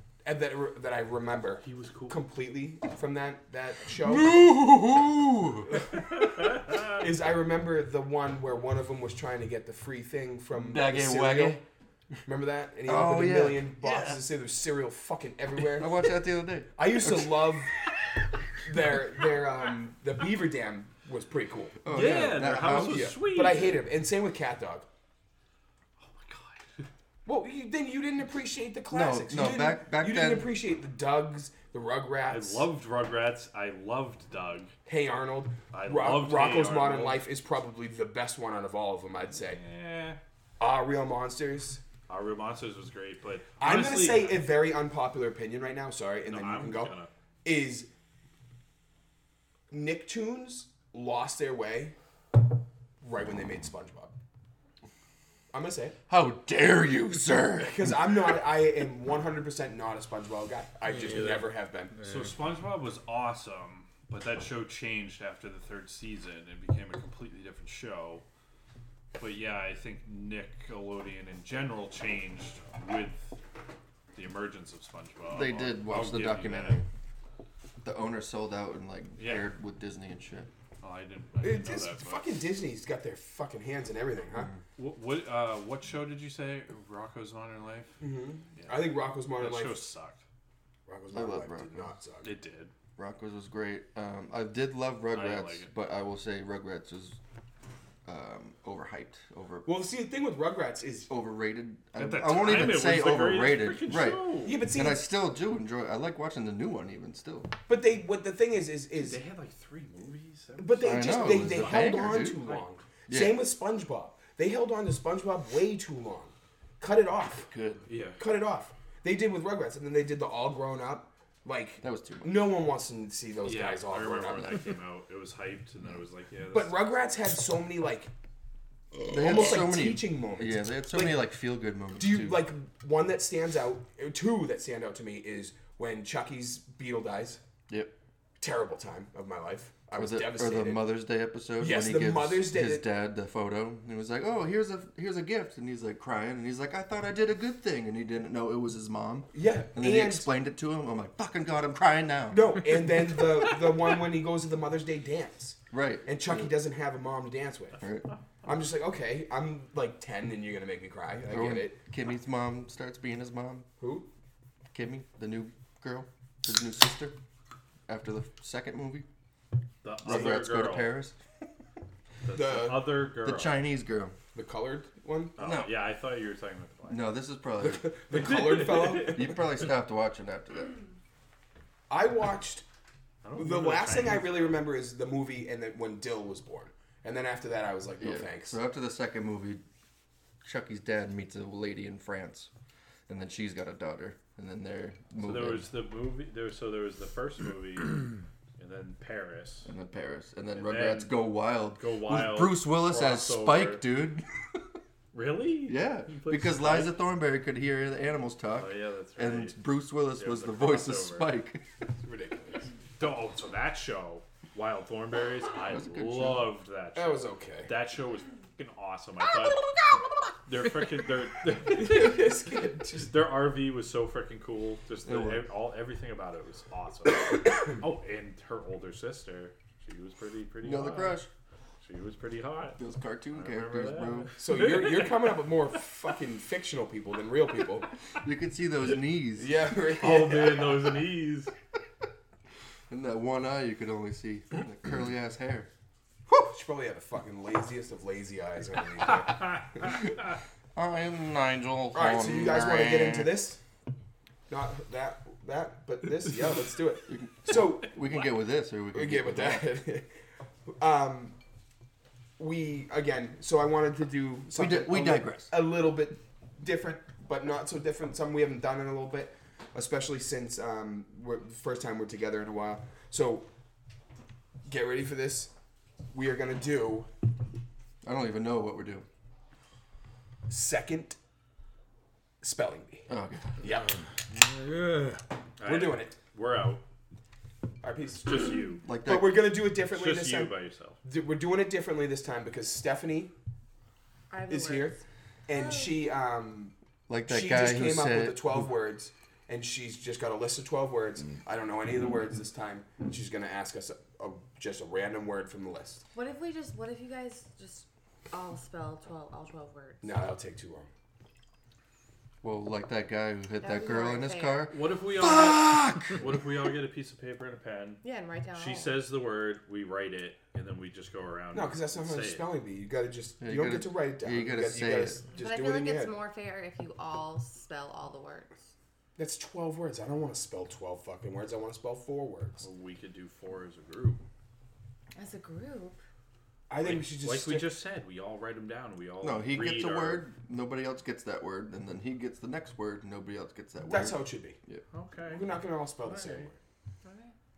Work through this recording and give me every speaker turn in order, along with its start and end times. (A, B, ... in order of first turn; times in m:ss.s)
0:00.2-0:04.5 A
0:01.6-0:02.2 B
0:04.0-0:05.8 C
0:06.2-0:06.9 B
0:06.5-0:11.6 A
0:10.5-0:11.6 C
0:12.3-0:16.0 A
0:12.9-0:13.8 C
0:13.8-0:14.2 B
0:15.6-0:17.6 C
0:16.8-0:17.8 A
0:18.6-0:21.8 A
0:21.8-0:23.2 C
0:21.9-0:23.8 B
0:22.5-0:24.9 A
0:26.0-0:26.9 B
0:27.2-0:32.7 A
0:28.9-0:30.5 C
0:32.3-0:34.7 B
0:34.9-0:39.6 A
0:35.7-0:37.2 B
0:39.4-0:40.2 B
0:40.6-0:41.8 A
0:42.1-0:44.5 B
0:43.6-0:47.9 A
0:46.3-0:47.1 B
0:49.7-0:52.0 A
0:53.0-0:54.2 A
0:55.5-0:56.0 A
0:56.1-0:58.0 C
0:57.6-1:01.9 A
1:00.9-1:02.3 D
1:02.0-1:08.2 B
1:09.2-1:13.4 B
1:14.1-1:16.8 B
1:15.3-1:16.9 C
1:17.8-1:20.5 C
1:19.2-1:19.5 B
1:20.8-1:22.3 B
1:21.4-1:24.5 A
1:24.8-1:28.0 B
1:28.0-1:29.8 A
1:28.6-1:30.2 B
1:30.9-1:32.3 A
1:31.1-1:31.9 C
1:32.2-1:32.7 B
1:33.0-1:37.2 C
1:35.1-1:35.7 B
1:38.0-1:39.8 C
1:39.6-1:41.1 A
1:41.1-1:47.5 C
1:42.0-1:44.6 B
1:44.4-1:45.1 A
1:47.7-1:49.2 A
1:49.0-1:52.8 B
1:50.6-1:57.5 A
1:50.8-1:52.4 C
1:53.1-1:53.4 C
1:57.4-1:57.8 C
1:57.9-1:58.2 B
1:58.2-2:04.7 A
2:01.8-2:02.6 C
2:03.4-2:06.8 B
2:06.5-2:08.1 A
2:09.0-2:11.3 A
2:09.0-2:12.4 C
2:12.0-2:17.4 A
2:17.7-2:17.9 C
2:18.4-2:20.9 A
2:20.0-2:32.7 C
2:21.6-2:22.9 A
2:29.3-2:30.3 A
2:32.3-2:37.9 A
2:35.7-2:36.6 C
2:37.8-2:38.1 C
2:38.4-2:41.8 A
2:41.3-2:43.7 C
2:43.8-2:44.1 A
2:44.7-2:47.2 C
2:47.9-2:49.1 C
2:49.8-2:51.0 B
2:50.0-2:51.2 C
2:52.2-2:53.6 B
2:52.3-2:53.0 A
2:53.2-2:54.2 C
2:54.3-2:55.4 A
2:55.4-2:57.1 B
2:55.4-2:55.8 C
2:56.9-2:58.0 C
2:57.6-2:59.4 A
2:58.1-2:59.3 B
2:59.0-3:00.8 C
3:01.9-3:02.6 A
3:03.2-3:04.7 B
3:03.4-3:08.6 A
3:08.0-3:09.6 C
3:10.4-3:12.5 C
3:13.1-3:15.7 C
3:15.2-3:19.7 B
3:19.7-3:24.2 C
3:20.5-3:23.9 B
3:25.1-3:27.0 B
3:25.7-3:31.6 C
3:28.6-3:31.4 B
3:32.0-3:32.7 A
3:33.0-3:39.7 B
3:35.7-3:36.6 C
3:37.0-3:37.7 A
3:40.4-3:42.3 B
3:41.6-3:43.2 A
3:43.0-3:51.2 B
3:45.1-3:45.5 C
3:50.6-3:51.3 C
3:51.8-3:52.8 B
3:52.8-3:54.4 C
3:53.3-3:55.5 B
3:54.4-3:57.9 A
3:58.2-3:59.5 C
3:59.4-4:00.9 A
3:59.9-4:01.5 B
4:02.9-4:05.7 C
4:06.3-4:10.0 A
4:10.8-4:13.4 C
4:11.9-4:13.6 A
4:14.5-4:18.0 A
4:17.1-4:19.8 C
4:18.9-4:20.1 A
4:20.8-4:21.4 A
4:22.4-4:33.5 A
4:24.5-4:25.5 C
4:34.7-4:35.5 A
4:36.1-4:37.1 A
4:38.0-4:39.1 C
4:40.5-4:41.2 A
4:42.4-4:43.1 A
4:43.1-4:43.6 C
4:43.6-4:43.9 A
4:43.9-4:45.2 D
4:45.6-4:46.8 B
4:45.6-4:46.2 A
4:47.8-4:53.3 A
4:48.2-4:48.8 B
4:48.8-4:49.5 C
4:49.9-4:51.0 B
4:54.3-4:56.0 E
4:54.5-4:55.0 A
4:55.5-4:56.7 A
4:57.1-4:58.7 C
4:57.2-5:06.0 A
5:06.1-5:10.2 E
5:10.0-5:10.9 A
5:12.4-5:16.3 C
5:13.6-5:14.7 E
5:14.7-5:18.0 B
5:18.0-5:19.0 E
5:18.5-5:22.5 B
5:21.5-5:26.2 A
5:23.4-5:25.2 C
5:25.3-5:28.6 E
5:29.2-5:32.6 A
5:32.6-5:34.2 B
5:35.2-5:36.0 E
5:36.7-5:37.7 A
5:36.8-5:40.3 B
5:39.2-5:44.8 C
5:43.8-5:44.6 A
5:44.9-5:45.6 B
5:45.3-5:46.6 A
5:46.1-5:46.5 B
5:47.0-5:47.3 E